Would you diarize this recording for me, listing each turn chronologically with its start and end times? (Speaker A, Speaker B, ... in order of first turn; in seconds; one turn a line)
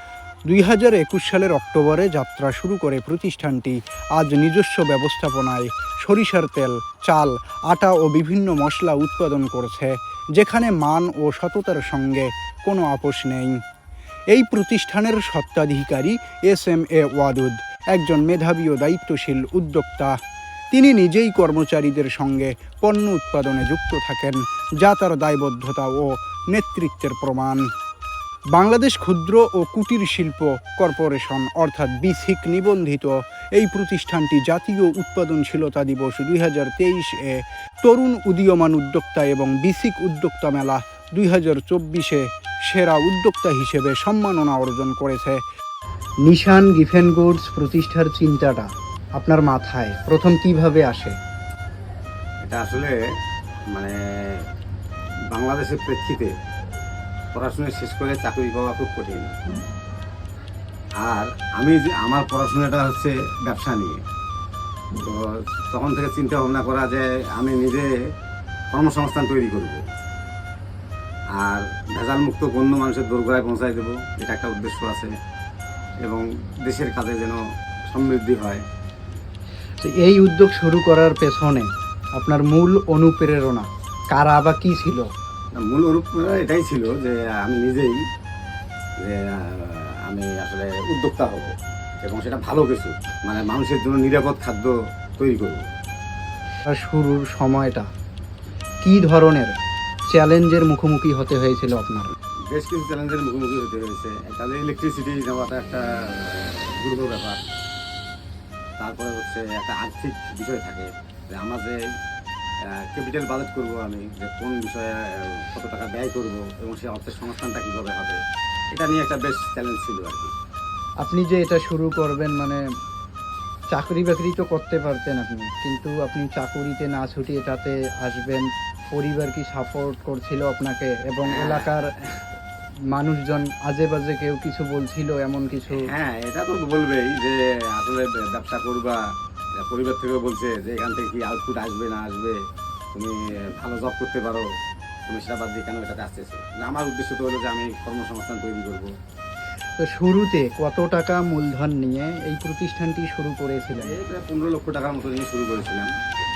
Speaker A: 0.5-13.6
Speaker A: 14.3-20.2
Speaker A: 20.7-27.7
Speaker A: 28.6-45.4
Speaker A: 46.3-51.2
Speaker B: 52.4-53.0
Speaker B: 53.7-54.5
Speaker B: 55.3-56.3
Speaker B: 57.3-59.4
Speaker B: 61.0-64.0
Speaker B: 65.0-68.0
Speaker B: 68.7-69.8
Speaker B: 71.4-75.1
Speaker B: 76.0-78.6
Speaker A: 79.8-85.1
Speaker B: 85.6-88.0
Speaker B: 89.0-91.5
Speaker B: 92.0-95.6
Speaker A: 96.7-97.9
Speaker A: 98.8-99.5
Speaker A: 100.1-102.1
Speaker B: 102.5-107.4
Speaker B: 108.8-111.8
Speaker B: 112.9-118.2
Speaker B: 118.7-120.3
Speaker A: 121.0-122.6
Speaker A: 123.7-132.3
Speaker B: 131.2-131.7
Speaker A: 132.9-135.9
Speaker B: 135.7-139.0
Speaker B: 139.6-142.4
Speaker B: 142.9-144.5
Speaker B: 145.1-148.9
Speaker A: 149.8-154.0
Speaker B: 153.7-155.9